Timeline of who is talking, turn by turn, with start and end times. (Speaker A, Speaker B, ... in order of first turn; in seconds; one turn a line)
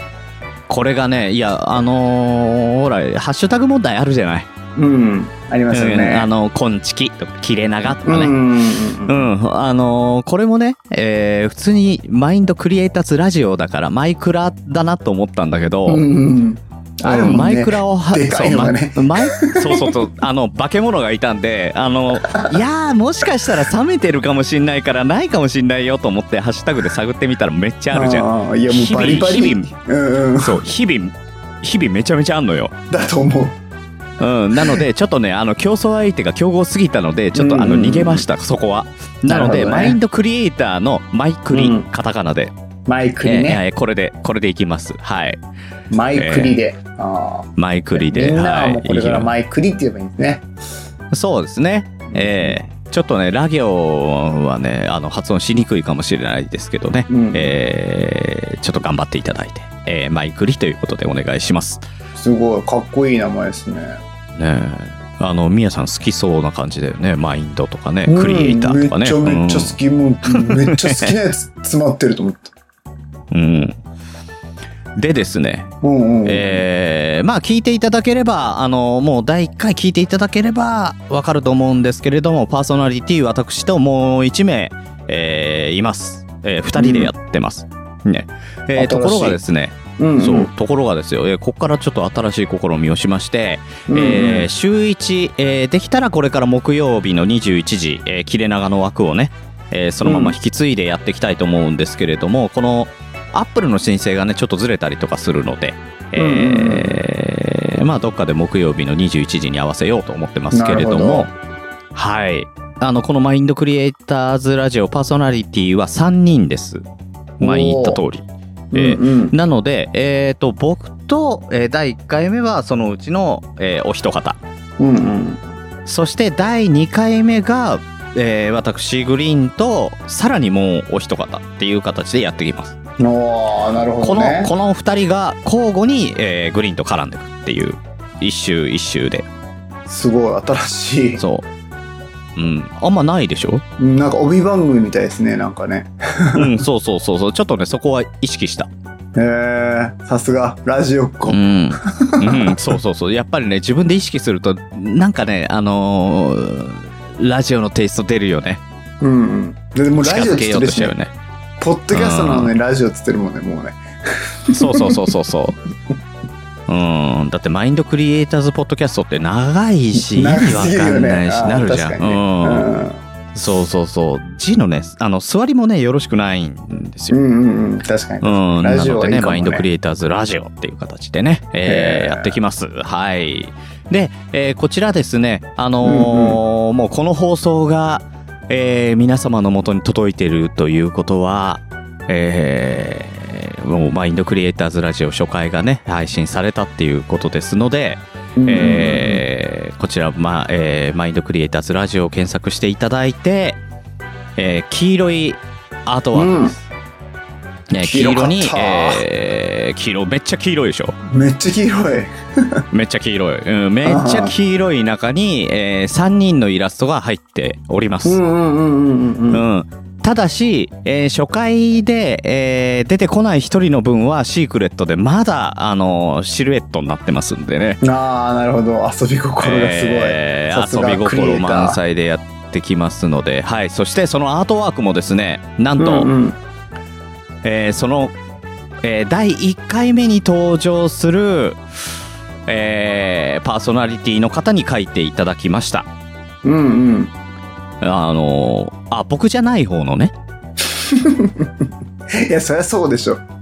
Speaker A: 0.7-4.5
Speaker B: 4.8-6.3
Speaker A: 5.7-8.3
Speaker B: 8.0-9.3
Speaker A: 9.0-16.0
Speaker B: 15.9-19.9
Speaker A: 17.0-29.7
Speaker B: 27.9-30.6
Speaker A: 30.4-32.7
Speaker B: 32.9-33.6
Speaker A: 34.2-42.5
Speaker B: 37.3-38.2
Speaker B: 39.3-40.0
Speaker B: 41.5-41.9
Speaker B: 42.9-43.6
Speaker A: 43.2-45.4
Speaker B: 45.9-50.5
Speaker A: 46.1-46.6
Speaker A: 47.6-49.3
Speaker A: 51.1-61.8
Speaker B: 52.1-52.6
Speaker B: 57.1-57.5
Speaker B: 62.1-64.0
Speaker A: 64.4-69.8
Speaker B: 68.1-72.5
Speaker A: 70.3-71.1
Speaker A: 73.3-73.8
Speaker A: 75.0-75.7
Speaker B: 75.8-76.6
Speaker A: 76.2-111.3
Speaker B: 86.8-87.1
Speaker B: 88.8-89.4
Speaker B: 90.0-90.5
Speaker B: 93.9-94.5
Speaker B: 100.0-100.4
Speaker B: 106.1-107.0
Speaker B: 110.5-111.3
Speaker A: 111.9-116.8
Speaker B: 117.4-118.0
Speaker A: 117.4-124.4
Speaker B: 118.7-119.3
Speaker B: 124.8-125.4
Speaker A: 125.9-132.7
Speaker B: 133.0-134.5
Speaker A: 134.0-139.3
Speaker B: 139.9-141.2
Speaker A: 141.2-141.4
Speaker A: 142.4-143.6
Speaker B: 143.8-146.5
Speaker A: 146.3-148.7
Speaker B: 149.2-152.7
Speaker A: 151.3-158.6
Speaker B: 159.0-160.9
Speaker A: 160.0-161.1
Speaker B: 161.6-163.8
Speaker A: 161.9-162.5
Speaker B: 164.4-164.9
Speaker A: 164.5-165.6
Speaker A: 166.7-172.7
Speaker B: 169.9-173.0
Speaker A: 173.3-177.2
Speaker B: 177.1-179.6
Speaker A: 178.2-203.6
Speaker B: 181.6-182.4
Speaker B: 185.8-186.4
Speaker B: 198.4-199.2
Speaker A: 204.4-206.5
Speaker B: 206.1-206.5
Speaker A: 207.7-211.0
Speaker B: 207.8-209.0
Speaker B: 211.1-212.6
Speaker A: 212.7-218.2
Speaker B: 213.8-214.3
Speaker B: 218.0-219.4
Speaker A: 219.3-227.8
Speaker B: 227.8-231.8
Speaker A: 229.4-236.1
Speaker B: 235.8-236.4
Speaker A: 237.4-238.1
Speaker A: 238.8-241.6
Speaker A: 242.5-245.9
Speaker B: 246.4-247.1
Speaker A: 247.8-250.1
Speaker B: 250.6-251.5
Speaker B: 252.1-253.2